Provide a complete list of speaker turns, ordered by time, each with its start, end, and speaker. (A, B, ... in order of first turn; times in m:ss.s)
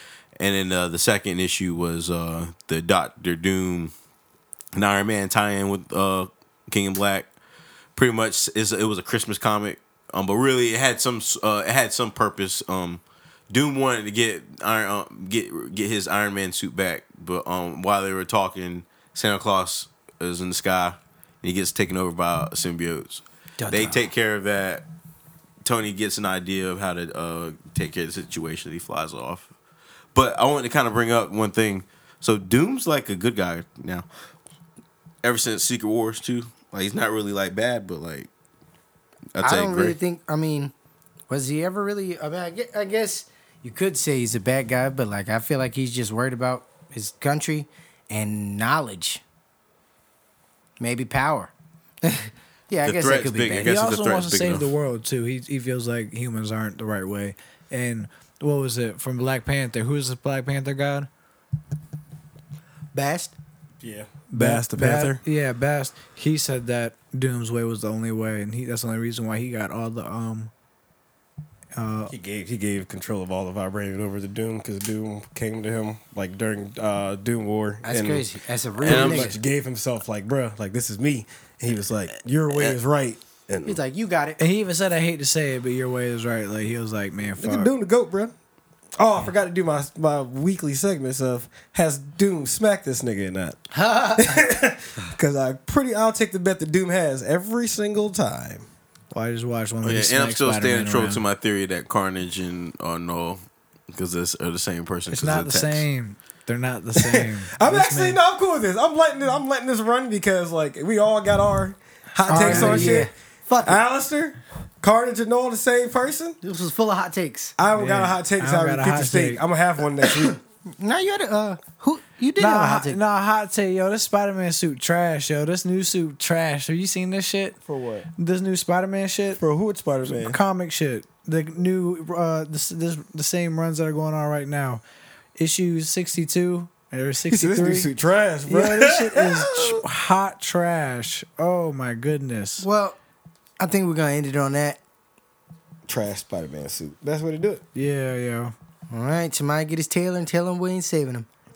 0:00.4-0:03.9 A
0:04.7-0:07.3 A
0:08.0-0:24.8 A
0:23.6-0:24.1 B
0:25.6-0:29.5 A
0:30.1-0:34.1 A
0:35.2-0:38.3 A
0:39.4-0:40.0 A
0:39.4-0:40.7 B
0:41.3-0:49.2 B
0:50.8-0:51.5 B
0:52.0-0:53.8 B
0:52.8-0:54.7 A
0:53.6-1:01.1 C
1:02.9-1:03.3 B
1:03.8-1:05.2 D
1:04.3-1:10.5 C
1:11.8-1:12.1 C
1:12.1-1:18.3 D
1:17.8-1:19.4 B
1:18.8-1:23.8 D
1:18.8-1:19.3 A
1:23.6-1:24.4 B
1:24.4-1:27.7 C
1:27.4-1:28.3 D
1:29.0-1:38.6 D
1:33.7-1:34.4 B
1:39.1-1:41.2 C
1:39.8-1:43.4 A
1:43.9-1:45.9 A
1:45.1-1:48.2 C
1:47.0-1:53.1 D
1:52.3-1:53.8 B
1:52.3-1:53.1 C
1:53.6-1:56.4 D
1:56.4-1:57.6 B
1:57.6-2:00.4 D
1:57.7-1:59.4 C
2:00.2-2:03.0 B
2:02.4-2:07.6 C
2:07.6-2:08.1 D
2:08.2-2:09.4 C
2:09.4-2:10.4 D
2:10.1-2:14.8 C
2:15.4-2:17.9 C
2:17.3-2:19.8 D
2:18.5-2:22.7 C
2:22.6-2:23.0 B
2:23.6-2:24.8 B
2:25.9-2:27.6 D
2:27.8-2:28.5 C
2:28.9-2:31.3 B